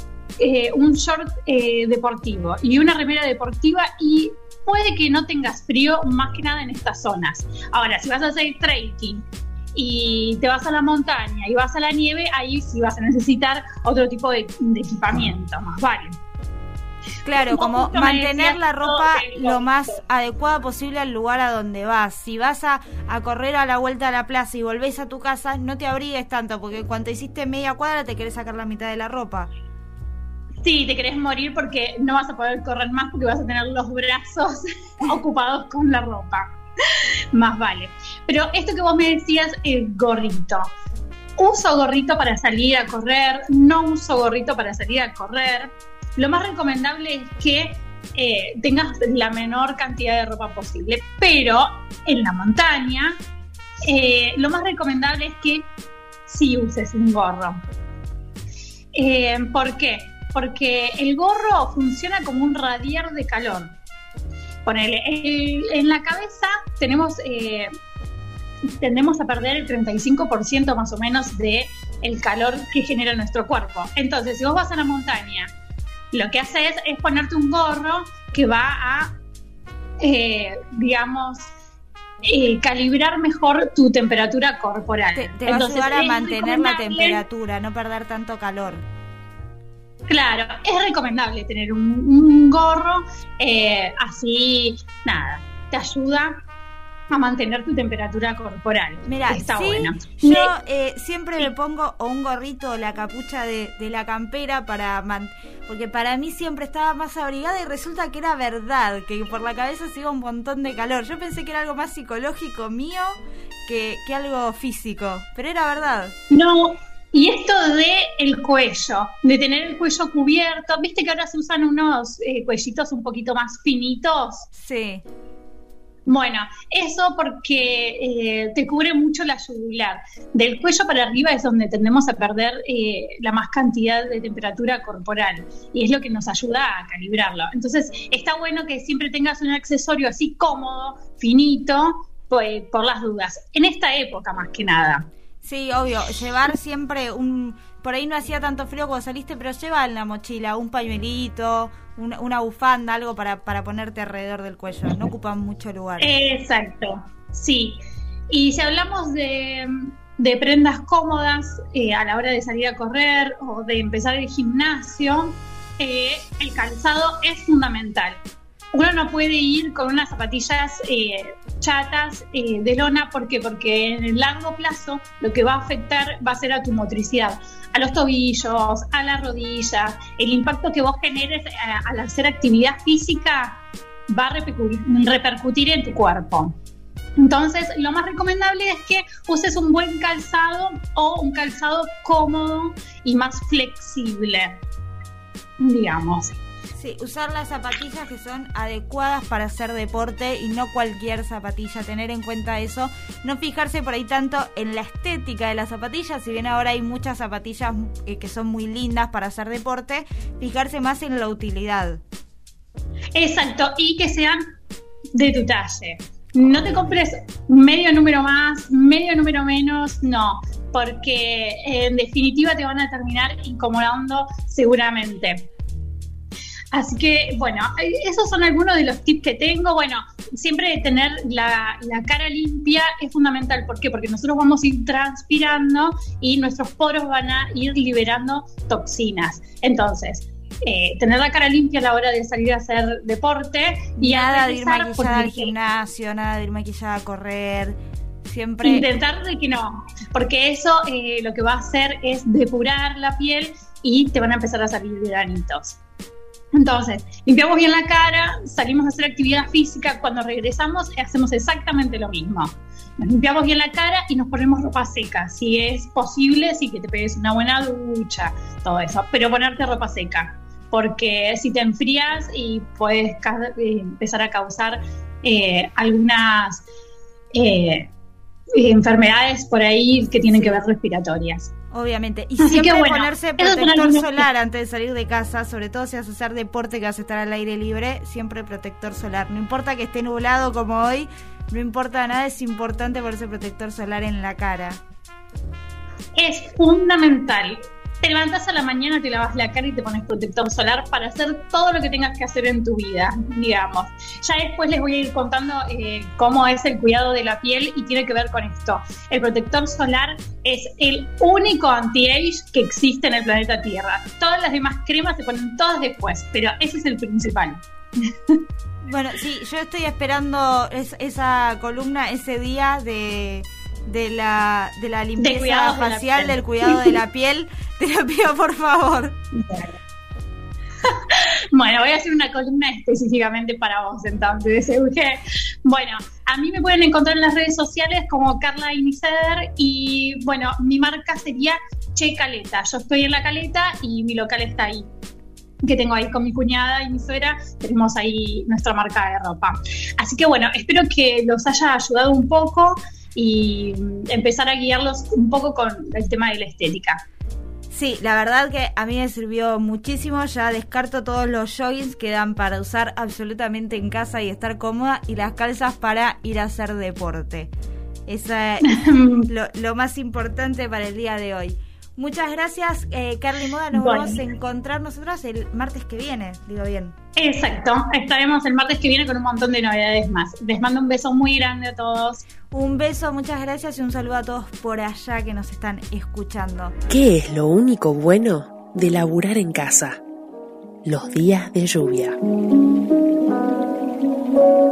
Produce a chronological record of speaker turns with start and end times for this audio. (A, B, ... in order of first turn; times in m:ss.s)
0:00.4-0:09.2 A
0:09.7-0:16.2 A
0:17.2-0:29.5 B
0:17.4-0:20.0 A
0:30.6-0:36.4 A
0:37.3-0:40.7 A
0:41.4-0:53.1 A
0:53.8-0:55.7 A
0:56.2-0:57.6 A
0:58.9-1:03.8 A
1:04.6-1:07.7 A
1:08.8-1:15.5 A
1:16.1-1:19.1 A
1:20.0-1:21.5 A
1:22.2-1:27.2 A
1:25.1-1:28.8 B
1:30.1-1:36.4 A
1:37.1-1:40.5 A
1:39.0-1:53.1 B
1:53.6-1:56.1 B
1:56.3-2:04.5 A
2:04.5-2:05.0 B
2:06.0-2:25.0 A
2:25.4-2:36.1 B
2:36.0-2:37.8 A
2:38.3-2:48.2 A
2:48.7-3:06.6 A
3:07.2-3:14.6 A
3:15.6-3:16.4 A
3:16.7-3:32.0 B
3:33.1-3:34.4 A
3:35.1-3:45.5 A
3:36.4-3:37.0 B
3:46.7-4:05.5 A
4:04.0-4:08.9 B
4:08.6-4:15.8 A
4:16.5-4:36.6 A
4:37.3-4:37.9 A
4:38.5-4:41.5 A
4:40.2-4:40.6 B
4:41.7-4:54.8 B
4:42.4-4:44.2 A
4:56.2-5:17.6 A
5:18.8-5:29.1 B
5:25.2-5:27.0 A
5:29.3-5:29.7 A
5:30.8-5:44.9 A
5:45.6-5:57.0 A
5:57.7-6:07.5 B
6:08.1-6:16.9 B
6:08.6-6:09.3 A
6:13.7-6:14.2 A
6:17.2-6:22.2 A
6:22.5-6:26.7 B
6:26.9-6:30.0 C
6:30.8-6:32.2 C